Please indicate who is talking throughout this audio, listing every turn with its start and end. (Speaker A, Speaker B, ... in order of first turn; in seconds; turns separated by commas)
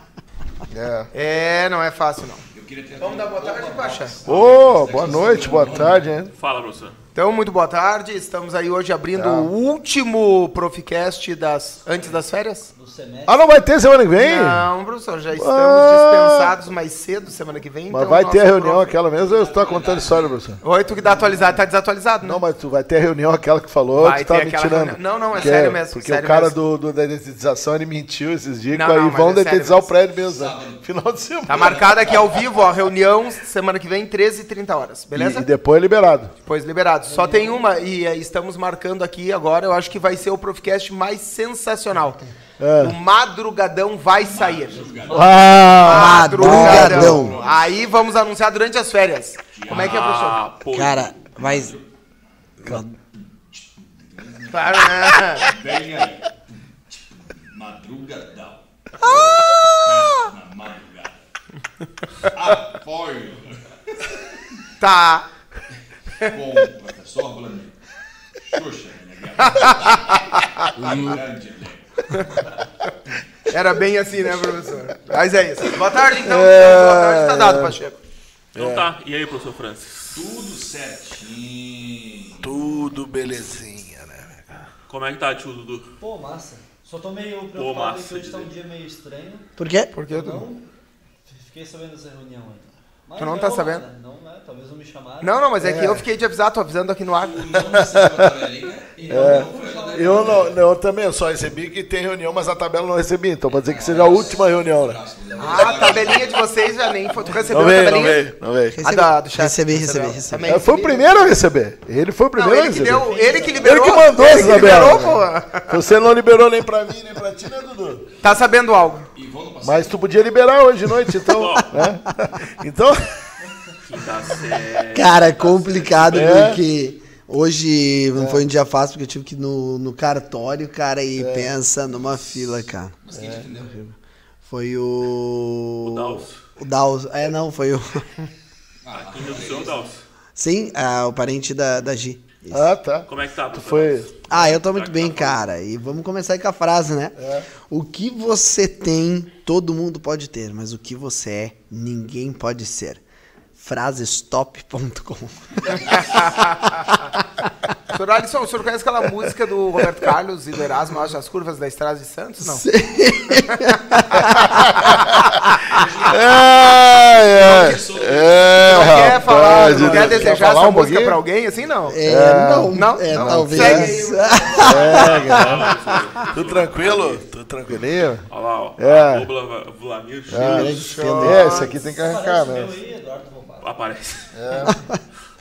Speaker A: 0.7-1.1, Speaker B: 1.1-2.4, Speaker C: 2.5-6.0, Speaker B: 3.0-4.2, Speaker A: 4.2-6.3, Speaker D: 6.3-7.0, Speaker B: 7.1-12.7, Speaker A: 9.1-9.5, Speaker E: 12.7-13.4, Speaker A: 13.3-14.7, Speaker B: 14.1-18.9, Speaker A: 15.3-16.5, Speaker A: 17.9-20.6, Speaker C: 19.2-20.6, Speaker B: 20.6-22.4, Speaker A: 22.2-31.8, Speaker B: 23.9-26.5, Speaker B: 28.7-29.9, Speaker C: 30.2-30.9, Speaker B: 31.5-35.5, Speaker C: 31.5-32.6, Speaker A: 35.1-36.3, Speaker B: 36.4-42.2, Speaker E: 37.1-37.6, Speaker A: 42.6-42.9, Speaker B: 42.8-44.8, Speaker C: 44.1-45.5, Speaker E: 44.7-45.8, Speaker A: 45.1-47.1, Speaker B: 45.8-50.4, Speaker F: 45.8-47.3, Speaker C: 46.1-48.1, Speaker C: 49.5-50.3, Speaker D: 49.7-51.7, Speaker F: 50.7-51.7, Speaker C: 51.4-51.8, Speaker F: 52.6-52.9, Speaker C: 53.5-61.2, Speaker B: 54.5-55.5, Speaker F: 59.0-59.9, Speaker C: 62.2-63.6, Speaker B: 64.8-65.3, Speaker C: 66.2-67.8, Speaker C: 68.4-72.2, Speaker B: 69.4-70.5, Speaker A: 70.8-71.2, Speaker B: 73.5-78.0, Speaker A: 76.2-77.8, Speaker A: 78.5-78.9, Speaker D: 78.6-80.2, Speaker C: 80.1-82.5, Speaker A: 82.4-84.7, Speaker D: 84.9-85.9, Speaker E: 86.0-89.5, Speaker D: 87.5-88.5, Speaker F: 89.6-89.9, Speaker B: 89.9-90.4, Speaker E: 90.1-90.6, Speaker E: 91.3-95.3, Speaker B: 93.2-93.8, Speaker B: 95.2-97.7, Speaker A: 95.6-96.0, Speaker C: 97.2-100.5, Speaker A: 97.6-98.3, Speaker E: 99.0-100.5, Speaker A: 99.1-105.0, Speaker C: 103.5-106.5, Speaker B: 105.4-108.3, Speaker A: 107.5-108.8, Speaker F: 108.7-110.5, Speaker B: 108.8-111.1, Speaker A: 110.5-118.0, Speaker B: 112.3-115.8, Speaker E: 112.9-113.7, Speaker B: 118.2-119.1, Speaker C: 119.1-120.3, Speaker A: 119.6-123.1, Speaker D: 121.3-121.9, Speaker D: 123.8-125.5, Speaker F: 124.9-133.0, Speaker C: 125.7-126.1, Speaker A: 126.1-126.6, Speaker A: 128.2-128.4, Speaker A: 131.2-131.5, Speaker C: 133.0-133.8, Speaker A: 133.1-133.7, Speaker F: 134.4-138.1, Speaker D: 135.8-136.4, Speaker C: 138.8-139.9, Speaker D: 138.9-140.0, Speaker F: 140.3-142.7, Speaker A: 142.5-144.3, Speaker D: 143.1-145.4, Speaker F: 144.3-153.0, Speaker A: 147.2-147.5, Speaker F: 153.6-156.2, Speaker B: 155.7-156.8, Speaker B: 157.9-162.6, Speaker F: 162.4-164.7, Speaker B: 163.3-164.5, Speaker A: 164.4-165.2, Speaker C: 165.7-169.2, Speaker A: 166.1-171.2, Speaker B: 168.6-172.0, Speaker C: 169.8-170.3, Speaker F: 171.9-176.2, Speaker A: 172.0-173.9, Speaker B: 172.7-175.2, Speaker A: 174.6-179.3, Speaker D: 174.8-177.2, Speaker D: 178.3-180.8, Speaker A: 180.3-182.7, Speaker F: 180.3-181.7, Speaker B: 180.6-181.8, Speaker E: 181.8-183.7, Speaker D: 183.6-184.4, Speaker A: 184.3-184.8, Speaker F: 184.6-185.0